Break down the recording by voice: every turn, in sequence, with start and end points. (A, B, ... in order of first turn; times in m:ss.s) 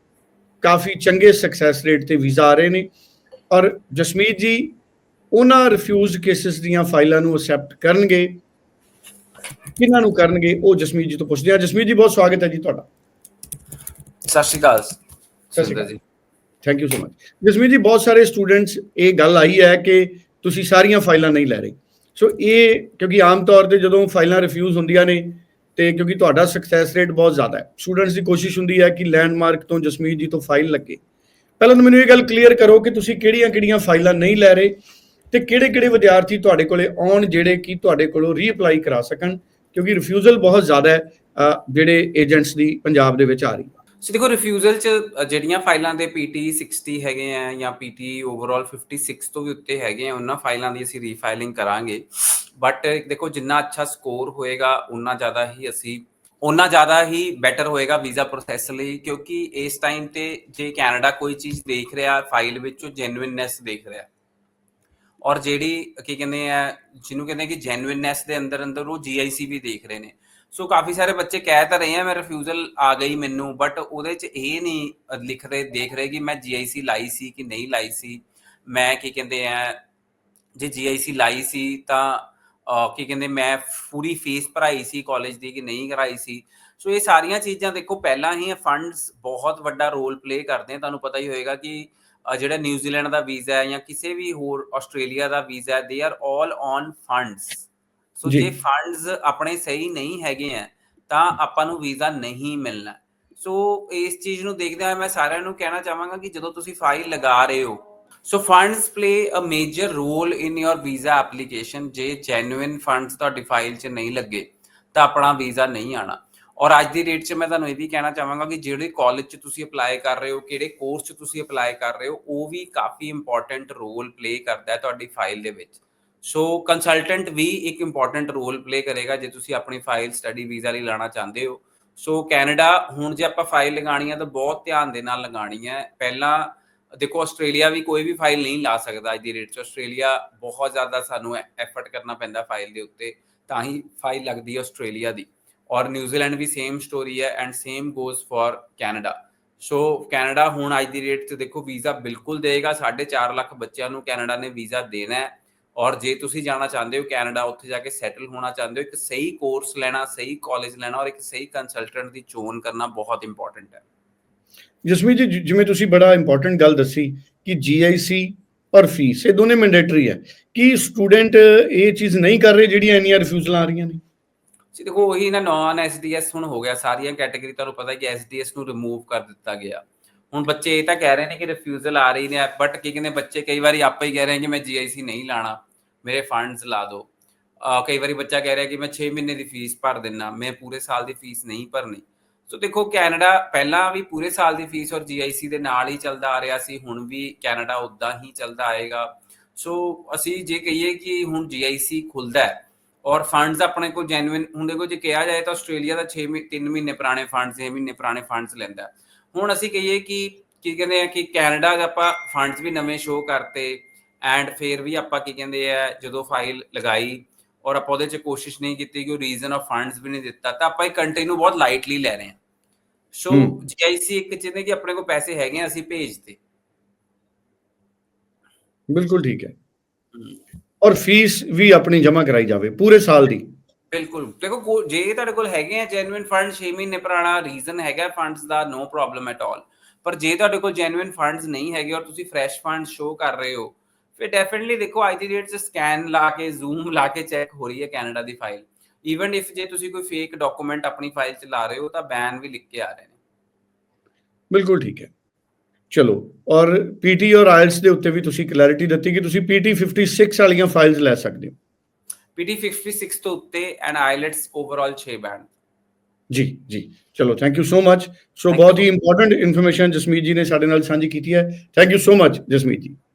0:00.6-0:02.9 A
0:03.5-0:04.8 A
0:05.3-0:08.4 A
0:09.8-0:12.9 A
0:14.3-0:15.0 B
0:15.5-0:16.0 B
0:15.6-0:15.9 A
0:16.6-0:31.0 A
0:31.6-0:34.7 A
0:35.3-0:43.7 A
0:44.0-1:04.1 B
1:05.2-1:19.8 B
1:20.6-2:43.8 B
2:44.8-2:54.0 A
2:54.7-3:07.1 B
3:07.6-3:42.4 B
3:43.1-3:46.4 B
3:43.3-3:43.6 A
3:48.9-3:49.5 A
3:50.8-3:53.5 A
3:53.9-4:13.2 B
4:14.5-4:15.1 A
4:15.9-4:21.6 A
4:22.4-4:25.5 B
4:26.3-4:33.0 A
4:28.5-4:28.9 B